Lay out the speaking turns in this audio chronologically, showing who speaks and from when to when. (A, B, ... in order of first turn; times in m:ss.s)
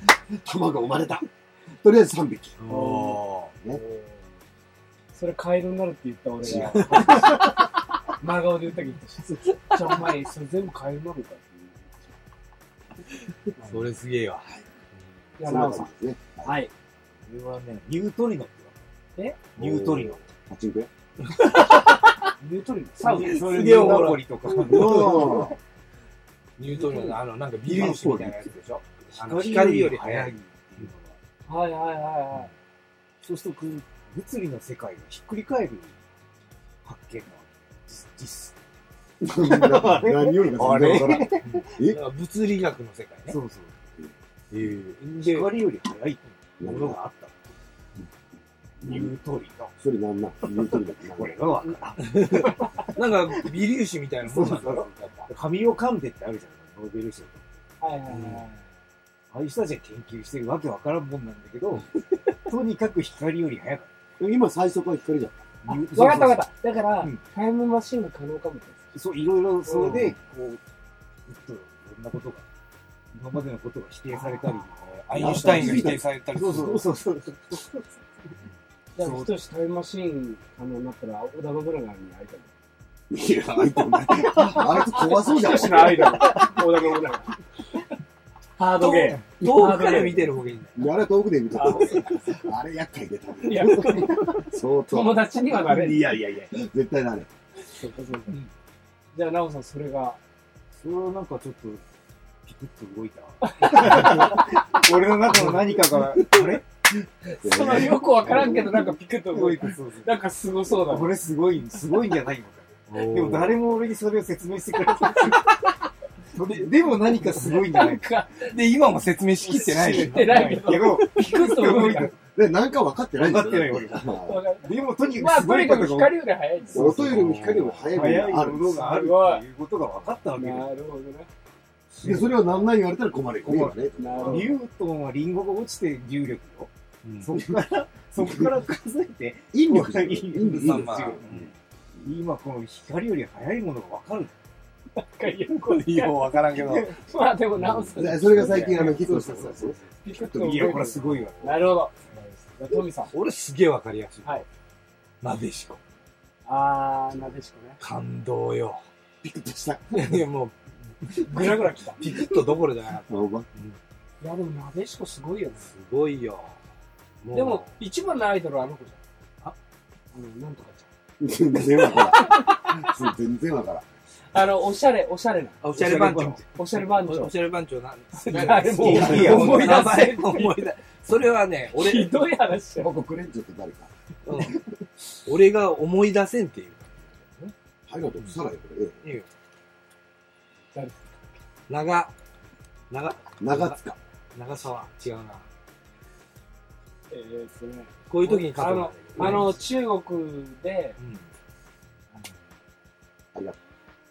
0:00.3-0:02.6 A
0:02.6-0:03.5 B
0:02.7-0:04.3 C
0:05.1-0:12.1 C
0:06.4-0:07.6 B
0:06.5-0:07.4 A
0:13.6-0:13.9 C
0:13.6-0:14.6 B
0:15.4-0:15.9 C
0:15.4-0:16.6 A
0:16.4-0:16.7 C
0:17.2-0:18.8 D
0:19.2-0:19.4 C
0:19.6-0:20.2 D
0:19.6-0:20.9 A
0:21.2-0:22.3 B
0:22.4-0:23.5 C
0:23.0-0:25.5 D
0:23.2-0:25.2 B
0:24.6-0:25.6 A
0:26.6-0:30.9 B
0:26.7-0:27.2 C
0:27.6-0:28.5 A
0:29.1-0:31.2 D
0:31.5-0:32.5 C
0:33.2-0:35.9 D
0:36.8-0:38.6 D
0:39.2-0:42.0 A
0:39.3-0:41.6 D
0:40.9-0:43.4 B
0:43.3-0:43.8 D
0:44.5-0:45.6 B
0:45.2-0:47.5 D
0:46.6-0:47.0 A
0:48.8-0:49.1 A
0:48.8-0:49.7 D
0:49.8-0:51.4 A
0:50.5-0:53.5 D
0:52.0-0:55.2 B
0:54.3-0:57.4 D
0:57.8-0:58.6 C
0:58.1-0:58.4 B
0:59.3-1:03.9 D
1:04.2-1:05.6 A
1:05.6-1:06.5 D
1:05.7-1:08.9 C
1:08.9-1:10.6 D
1:09.6-1:10.1 C
1:11.3-1:12.4 D
1:13.1-1:18.4 D
1:14.1-1:14.7 C
1:15.1-1:16.8 A
1:15.2-1:16.8 B
1:19.0-1:22.5 C
1:19.0-1:19.3 D
1:23.1-1:26.5 A
1:24.3-1:27.4 C
1:25.9-1:26.4 D
1:28.6-1:30.3 C
1:28.8-1:30.9 B
1:30.8-1:37.3 A
1:31.5-1:32.0 C
1:33.4-1:36.2 C
1:37.6-1:38.4 C
1:39.1-1:40.2 C
1:40.7-1:41.8 D
1:42.4-1:46.6 D
1:43.4-1:44.5 C
1:45.4-1:45.7 C
1:47.2-1:51.1 C
1:47.4-1:48.8 A
1:48.0-1:55.7 D
1:52.9-1:53.6 B
1:55.1-1:55.6 C
1:56.3-1:58.0 D
1:56.8-1:58.6 C
1:58.4-2:00.6 B
1:59.4-2:02.2 D
1:59.5-2:02.1 C
2:02.3-2:04.4 A
2:03.1-2:10.7 D
2:04.2-2:07.0 C
2:06.7-2:08.8 A
2:07.1-2:08.1 B
2:08.7-2:09.4 C
2:10.4-2:11.3 C
2:12.0-2:12.7 D
2:12.0-2:14.6 A
2:13.4-2:21.5 D
2:14.0-2:14.6 C
2:17.0-2:17.3 B
2:18.2-2:18.6 A
2:19.5-2:21.5 A
2:20.6-2:21.5 B
2:22.0-2:24.3 D
2:25.0-2:28.9 C
2:25.6-2:27.0 B
2:26.6-2:26.8 D
2:27.8-2:31.7 D
2:27.9-2:30.7 A
2:28.4-2:29.2 B
2:30.0-2:33.1 C
2:31.0-2:31.3 B
2:33.1-2:34.4 B
2:35.2-2:35.8 B
2:36.4-2:37.8 C
2:37.8-2:38.8 B
2:39.2-2:40.2 A
2:39.9-2:43.8 B
2:41.2-2:42.0 C
2:43.1-2:43.5 A
2:44.2-2:45.7 C
2:45.7-2:46.6 B
2:47.2-2:47.8 B
2:47.3-2:49.0 C
2:50.1-2:50.9 C
2:51.2-2:53.8 A
2:51.8-2:52.8 C
2:54.3-2:55.6 C
2:55.6-3:02.1 B
2:55.7-2:56.4 D
2:56.5-2:57.4 C
2:58.1-3:00.6 C
2:58.7-2:59.9 D
2:58.9-2:59.5 A
3:01.7-3:02.9 C
3:02.8-3:04.6 A
3:04.2-3:04.6 B
3:05.2-3:07.5 B
3:07.9-3:09.0 A
3:10.7-3:11.4 C
3:11.7-3:12.1 B
3:12.9-3:13.8 B
3:13.4-3:14.0 A
3:14.3-3:15.5 B
3:17.1-3:21.0 C
3:18.1-3:19.6 B
3:21.0-3:21.2 B